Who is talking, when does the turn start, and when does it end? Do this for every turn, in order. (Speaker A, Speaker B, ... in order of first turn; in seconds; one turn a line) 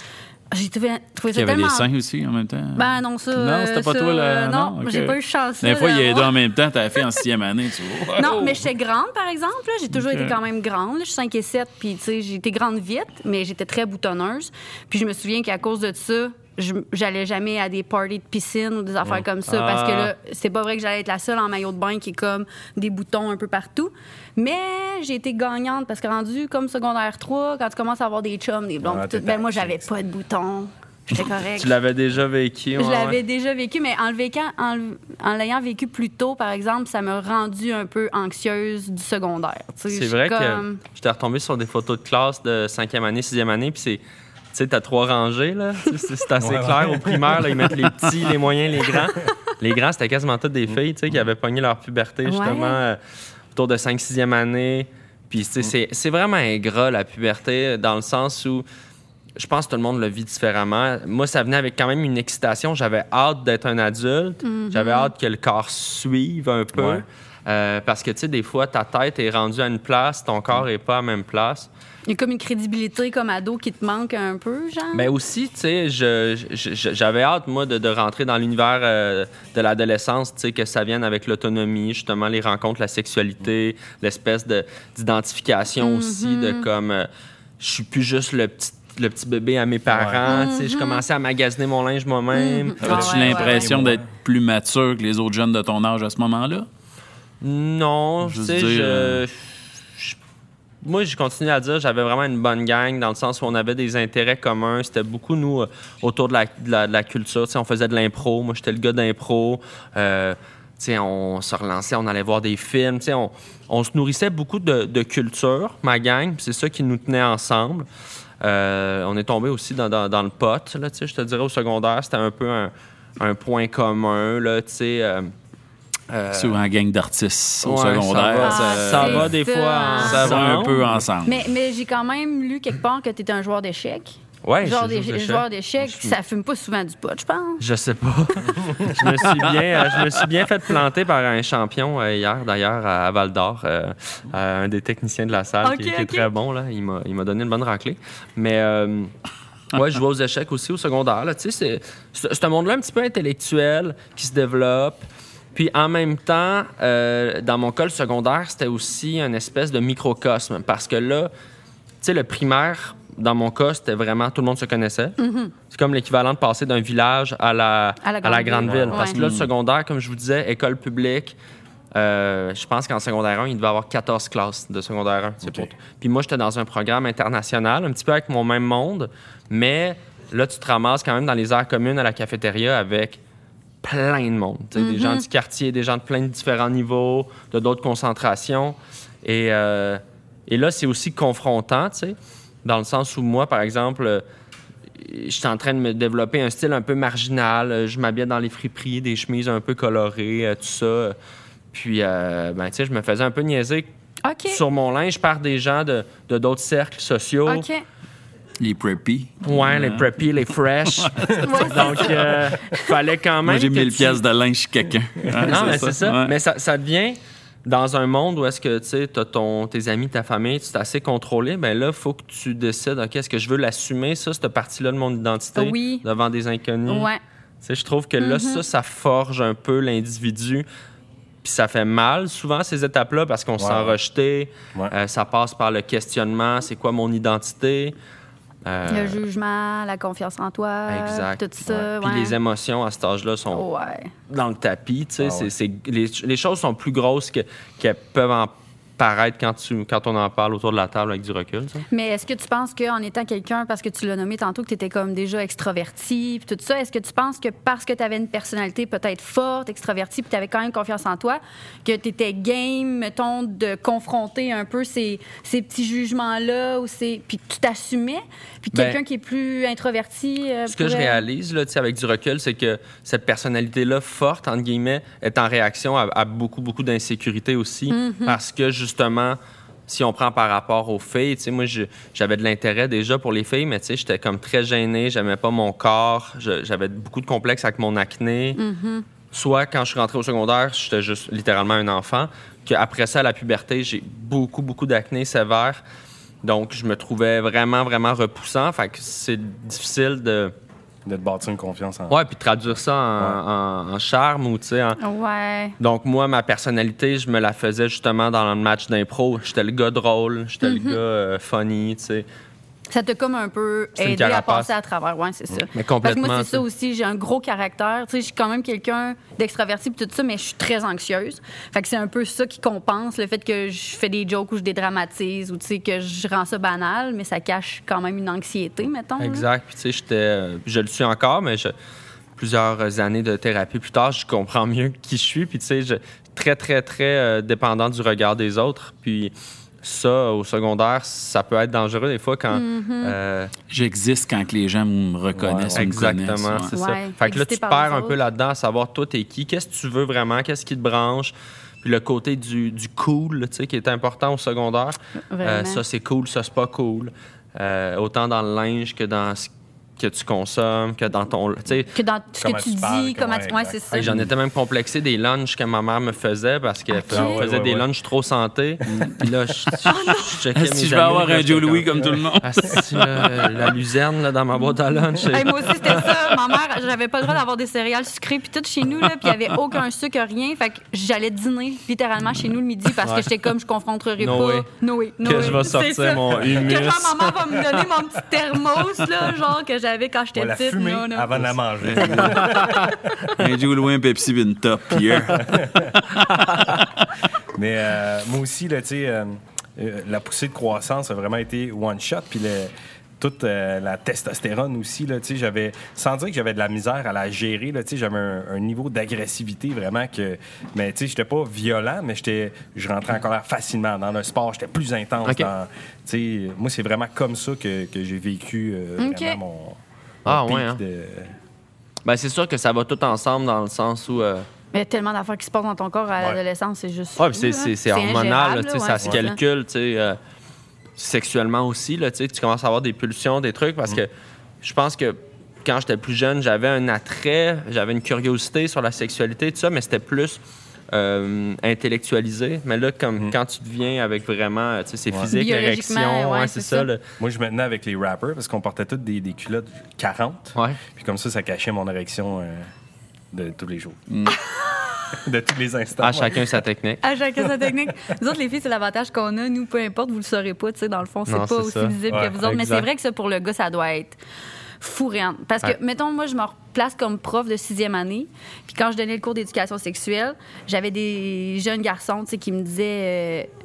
Speaker A: 0.5-1.9
Speaker B: 1.3-8.6
Speaker A: 2.8-6.3
Speaker A: 8.2-31.7
Speaker B: 9.9-10.4
Speaker C: 19.5-20.1
Speaker D: 28.8-29.9
Speaker C: 31.6-33.2
Speaker A: 32.8-40.8
Speaker C: 39.9-44.0
Speaker C: 44.5-53.0
Speaker D: 46.4-47.8
Speaker A: 52.2-52.8
Speaker C: 53.5-58.6
Speaker C: 59.4-71.7
Speaker A: 64.4-65.1
Speaker D: 66.7-67.0
Speaker A: 72.1-75.1
Speaker C: 74.9-87.1
Speaker A: 85.8-86.7
Speaker C: 87.6-93.4
Speaker D: 89.9-90.4
Speaker A: 90.2-91.0
Speaker A: 92.3-93.7
Speaker D: 92.8-94.0
Speaker B: 92.8-96.7
Speaker C: 97.4-100.2
Speaker B: 98.2-99.2
Speaker C: 100.8-117.9
Speaker C: 118.4-125.3
Speaker C: 126.1-126.6
Speaker B: 126.3-129.3
Speaker C: 127.6-130.9
Speaker A: 128.4-130.4
Speaker B: 129.9-131.5
Speaker A: 131.2-137.6
Speaker C: 134.4-135.4
Speaker C: 137.6-149.1
Speaker A: 145.6-146.3
Speaker C: 149.7-161.3
Speaker C: 162.0-165.2
Speaker A: 165.2-165.5
Speaker C: 165.7-171.3
Speaker A: 168.0-169.2
Speaker D: 168.6-169.0
Speaker B: 169.0-169.5
Speaker C: 171.9-183.2
Speaker D: 175.4-175.7
Speaker C: 183.8-194.2
Speaker A: 184.8-185.3
Speaker C: 195.0-201.2
Speaker C: 201.7-203.9
Speaker A: 204.2-204.6
Speaker C: 204.5-207.7
Speaker A: 207.5-207.8
Speaker B: 208.6-212.4
Speaker C: 209.4-214.2
Speaker A: 211.4-212.2
Speaker B: 213.4-216.3
Speaker D: 215.3-215.7
Speaker C: 215.5-227.1
Speaker A: 225.6-226.1
Speaker A: 226.9-227.2
Speaker C: 227.6-230.7
Speaker A: 228.2-228.6
Speaker C: 231.4-238.0
Speaker D: 233.6-234.0
Speaker C: 238.7-239.2
Speaker A: 238.9-242.4
Speaker C: 240.9-243.7
Speaker A: 243.5-244.1
Speaker C: 244.3-251.9
Speaker D: 245.2-245.5
Speaker A: 251.9-271.3
Speaker C: 268.7-269.0
Speaker C: 270.7-288.6
Speaker A: 277.9-278.4
Speaker A: 288.6-289.1
Speaker C: 289.3-295.8
Speaker C: 296.4-300.5
Speaker D: 301.1-302.2
Speaker C: 302.1-305.0
Speaker A: 305.0-305.8
Speaker C: 305.8-312.3
Speaker A: 310.6-311.0
Speaker A: 312.9-329.5
Speaker C: 314.0-314.7
Speaker C: 315.7-316.6
Speaker C: 329.2-331.7
Speaker C: 332.4-343.5
Speaker A: 342.5-343.2
Speaker B: 343.7-346.7
Speaker D: 345.4-345.9
Speaker C: 345.8-361.9
Speaker A: 346.7-348.2
Speaker A: 355.3-355.8
Speaker A: 361.9-364.1
Speaker D: 362.4-364.0
Speaker C: 363.9-376.1
Speaker A: 366.9-367.4
Speaker D: 367.1-367.9
Speaker B: 368.9-369.2
Speaker A: 369.9-370.4
Speaker B: 370.6-373.7
Speaker A: 375.2-391.3
Speaker C: 383.0-383.3
Speaker C: 384.2-384.7
Speaker C: 385.2-387.6
Speaker D: 386.4-386.8
Speaker D: 390.4-392.9
Speaker B: 391.4-392.6
Speaker C: 392.2-392.9
Speaker A: 393.1-393.4
Speaker B: 393.3-397.1
Speaker D: 395.4-395.9
Speaker C: 396.4-396.7
Speaker D: 397.5-421.3
Speaker A: 419.0-419.4
Speaker C: 420.3-420.8
Speaker C: 422.1-424.5
Speaker A: 424.7-429.4
Speaker C: 427.2-430.2
Speaker C: 431.0-440.4
Speaker C: 440.9-447.0
Speaker A: 445.3-446.9
Speaker D: 447.2-452.7
Speaker C: 450.6-450.8
Speaker D: 453.3-454.0
Speaker B: 454.1-454.4
Speaker A: 454.3-455.2
Speaker D: 455.1-456.6
Speaker C: 456.0-457.0
Speaker A: 457.0-464.2
Speaker C: 461.3-462.9
Speaker D: 462.1-462.4
Speaker A: 464.8-473.5